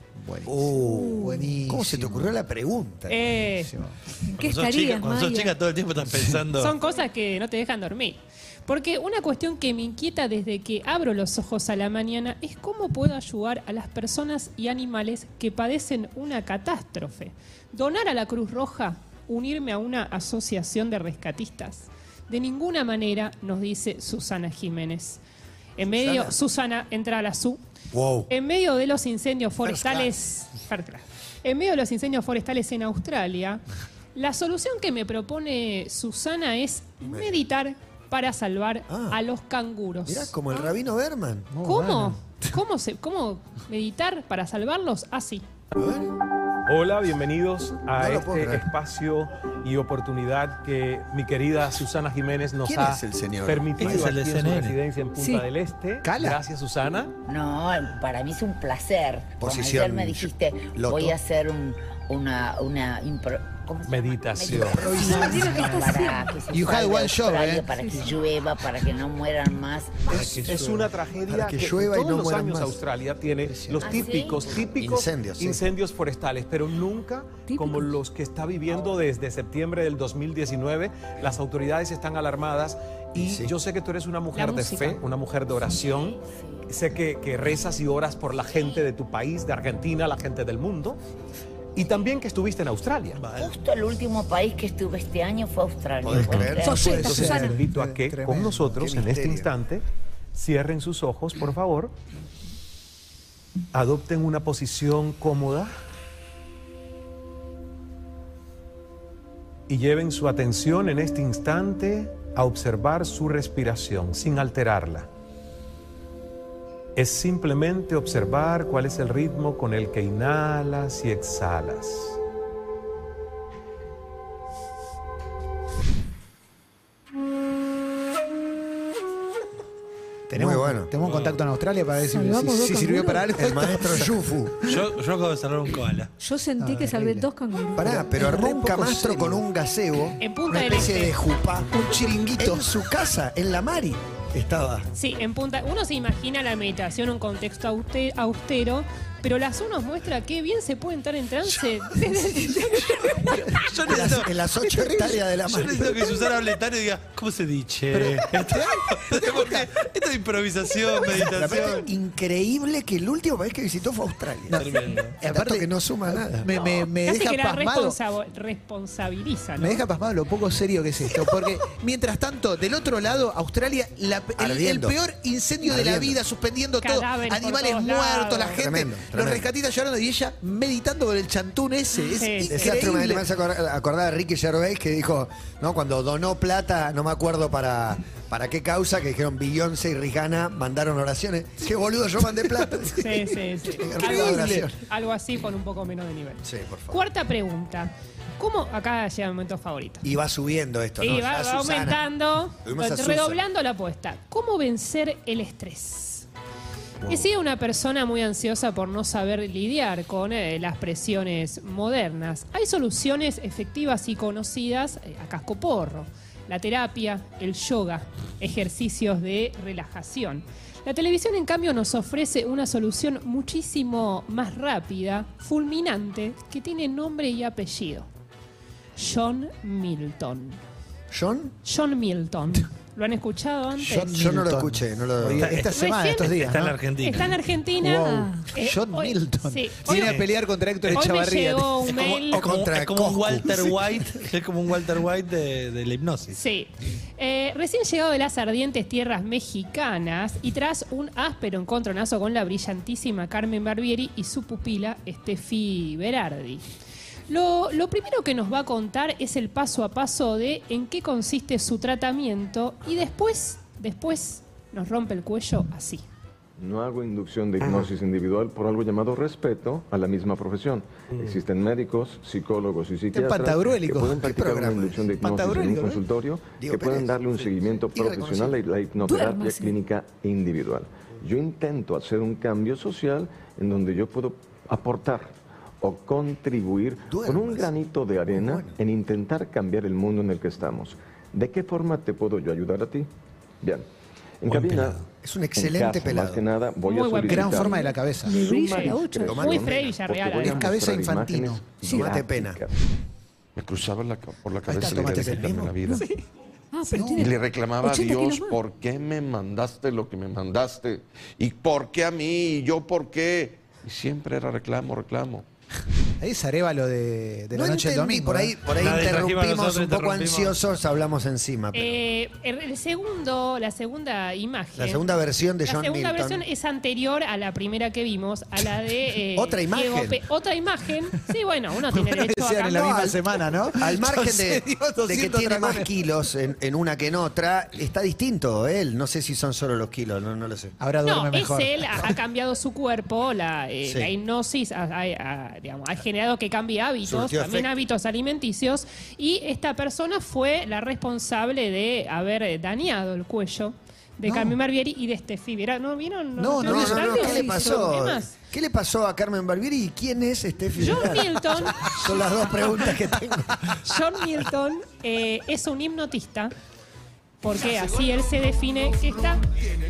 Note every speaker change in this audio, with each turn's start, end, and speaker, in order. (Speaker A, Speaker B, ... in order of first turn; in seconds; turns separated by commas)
Speaker A: 0.2-2.3, Speaker B: 0.5-3.3, Speaker C: 0.8-1.4, Speaker D: 3.1-3.7, Speaker A: 3.6-4.0, Speaker C: 4.3-5.5, Speaker E: 4.4-6.7, Speaker A: 6.1-6.4, Speaker D: 6.6-25.2, Speaker D: 25.8-27.6, Speaker B: 25.9-26.3, Speaker B: 27.9-28.3, Speaker D: 28.3-33.6, Speaker B: 29.6-30.1, Speaker D: 34.1-40.3, Speaker B: 37.0-37.4, Speaker B: 38.9-39.2, Speaker B: 40.1-41.5, Speaker A: 41.5-42.4, Speaker D: 41.6-45.4, Speaker B: 45.8-46.1, Speaker F: 46.7-57.1, Speaker B: 48.0-48.7, Speaker B: 52.6-54.1, Speaker E: 53.8-54.8, Speaker C: 55.1-55.5, Speaker A: 56.0-56.4, Speaker G: 57.3-70.1, Speaker B: 59.4-61.2, Speaker F: 63.9-64.8, Speaker A: 64.5-66.0, Speaker B: 64.5-65.2, Speaker C: 64.9-66.4, Speaker A: 66.5-67.8, Speaker C: 67.8-68.2, Speaker B: 70.1-72.8, Speaker F: 70.2-91.0, Speaker A: 73.5-73.9, Speaker B: 73.8-75.6, Speaker G: 73.9-74.4, Speaker C: 77.5-78.0, Speaker B: 83.2-83.5, Speaker D: 84.3-85.0, Speaker F: 91.8-93.2, Speaker E: 93.2-93.5, Speaker G: 93.3-97.1, Speaker B: 96.0-97.3, Speaker C: 96.6-97.6, Speaker A: 96.7-98.8, Speaker F: 97.2-101.9, Speaker B: 98.5-99.5, Speaker F: 103.7-105.7, Speaker F: 109.7-115.1, Speaker F: 117.0-122.2, Speaker A: 130.3-134.8, Speaker B: 130.3-130.9, Speaker E: 131.0-131.4, Speaker C: 132.1-133.3, Speaker B: 133.4-134.7, Speaker E: 134.7-136.1, Speaker C: 136.2-138.0, Speaker A: 136.6-139.4, Speaker B: 137.8-141.7, Speaker D: 140.2-141.2, Speaker A: 141.7-142.7, Speaker B: 142.3-144.9, Speaker D: 144.9-153.0, Speaker C: 152.4-153.2, Speaker A: 153.2-155.2, Speaker E: 153.6-154.3, Speaker B: 153.9-156.0, Speaker E: 155.5-161.9, Speaker A: 157.9-159.7, Speaker B: 161.3-164.7, Speaker A: 164.5-168.0, Speaker E: 164.6-165.2, Speaker B: 165.2-166.5, Speaker D: 167.1-169.8, Speaker A: 169.6-183.3, Speaker B: 174.4-175.0, Speaker B: 175.7-176.2, Speaker D: 176.8-178.6, Speaker B: 178.6-179.4, Speaker D: 182.1-182.8, Speaker B: 182.5-193.1, Speaker A: 192.6-192.9, Speaker D: 192.9-200.0, Speaker B: 193.7-194.8, Speaker A: 194.0-194.7, Speaker B: 196.4-197.0, Speaker B: 200.0-202.0, Speaker D: 201.0-206.3, Speaker B: 202.6-203.4, Speaker B: 207.0-207.3, Speaker D: 207.1-228.1, Speaker D: 229.0-230.6, Speaker B: 231.1-231.5, Speaker D: 231.6-234.2, Speaker A: 233.8-236.8, Speaker B: 234.1-235.6, Speaker E: 235.4-235.7, Speaker D: 235.8-240.2, Speaker E: 236.3-237.4, Speaker A: 237.8-241.9, Speaker E: 239.9-240.3, Speaker D: 240.9-242.4, Speaker E: 241.9-246.4, Speaker B: 242.3-244.0, Speaker D: 246.3-256.6, Speaker D: 257.3-266.1, Speaker H: 266.6-293.1, Speaker A: 267.6-267.9, Speaker A: 273.1-274.3, Speaker B: 274.2-275.2, Speaker A: 275.2-276.0, Speaker B: 276.6-277.3, Speaker B: 277.9-278.6, Speaker C: 279.0-279.8, Speaker B: 287.1-287.8, Speaker B: 288.3-288.8, Speaker H: 294.4-295.0, Speaker B: 295.2-296.5, Speaker H: 295.6-302.7, Speaker D: 296.9-297.6, Speaker A: 297.2-298.4, Speaker C: 297.4-299.4, Speaker D: 298.6-300.8, Speaker B: 299.3-299.9, Speaker A: 300.4-301.6, Speaker C: 301.8-302.1, Speaker B: 301.9-302.6, Speaker I: 303.6-306.1, Speaker A: 304.7-306.0, Speaker B: 304.9-305.7, Speaker C: 306.7-308.6, Speaker A: 306.9-307.3, Speaker I: 307.2-315.4, Speaker A: 316.2-318.5, Speaker B: 317.5-322.0, Speaker E: 318.8-320.6, Speaker D: 321.7-333.1, Speaker B: 324.8-326.4, Speaker B: 329.4-330.2, Speaker A: 331.9-335.9, Speaker B: 333.8-340.8, Speaker A: 340.8-342.1, Speaker D: 341.0-358.4, Speaker B: 343.9-344.1, Speaker B: 347.0-347.7, Speaker A: 354.2-354.6, Speaker A: 356.4-357.3, Speaker B: 356.6-363.7, Speaker C: 356.9-357.9, Speaker D: 360.8-362.0, Speaker D: 363.8-366.5, Speaker D: 367.4-369.4